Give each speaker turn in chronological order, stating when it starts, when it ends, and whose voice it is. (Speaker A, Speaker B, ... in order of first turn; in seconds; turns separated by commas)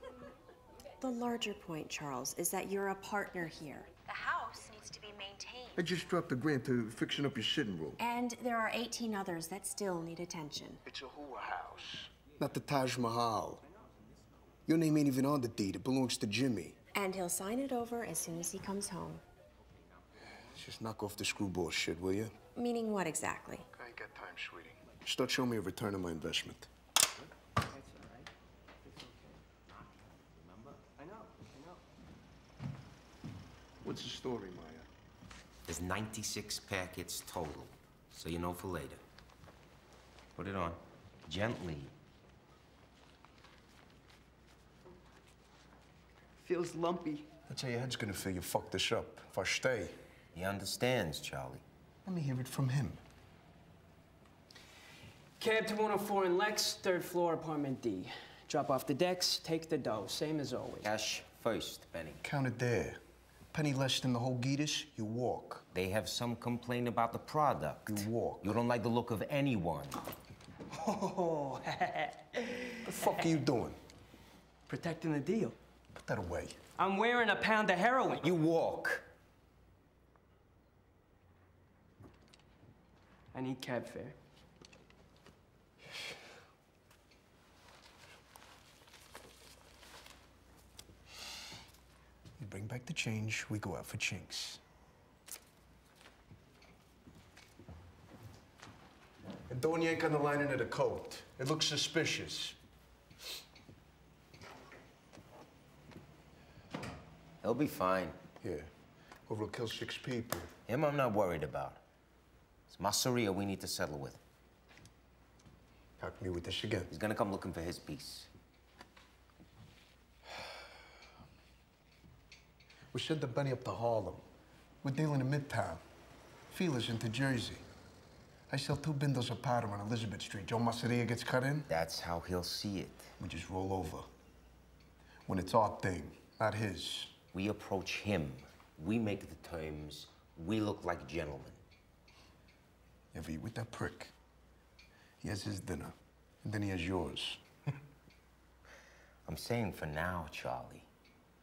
Speaker A: 1.0-5.9, Speaker B: 5.8-8.0, Speaker A: 8.0-10.8, Speaker B: 10.9-13.6, Speaker B: 14.7-16.8, Speaker A: 16.9-19.2, Speaker B: 20.5-22.3, Speaker A: 22.6-23.7, Speaker B: 23.7-26.7, Speaker C: 27.6-28.3, Speaker C: 28.8-29.4, Speaker D: 30.4-30.8, Speaker C: 31.0-31.8, Speaker B: 33.8-34.9, Speaker D: 35.7-39.0, Speaker D: 40.4-41.9, Speaker C: 46.4-47.3, Speaker B: 47.5-50.0, Speaker D: 50.3-51.6, Speaker B: 52.0-53.0, Speaker C: 55.4-60.9, Speaker D: 60.8-62.2, Speaker B: 62.2-63.0, Speaker B: 63.5-65.6, Speaker D: 65.7-70.0, Speaker B: 67.9-68.5, Speaker C: 70.7-73.0, Speaker B: 72.8-73.8, Speaker C: 74.7-75.6, Speaker B: 76.0-76.6, Speaker C: 76.8-78.3, Speaker D: 78.2-79.1, Speaker C: 83.3-84.2, Speaker B: 92.4-94.6, Speaker B: 99.5-102.6, Speaker D: 107.4-108.2, Speaker B: 108.4-108.7, Speaker B: 109.3-110.5, Speaker D: 110.7-111.8, Speaker D: 112.7-114.2, Speaker B: 116.0-116.9, Speaker D: 116.9-118.3, Speaker B: 122.9-124.2, Speaker B: 124.8-125.8, Speaker B: 126.5-127.7, Speaker B: 128.5-131.7, Speaker D: 131.7-133.1, Speaker B: 133.2-134.1, Speaker B: 135.3-137.1, Speaker D: 137.3-141.6, Speaker B: 143.1-144.1, Speaker B: 145.2-147.4, Speaker D: 149.3-150.9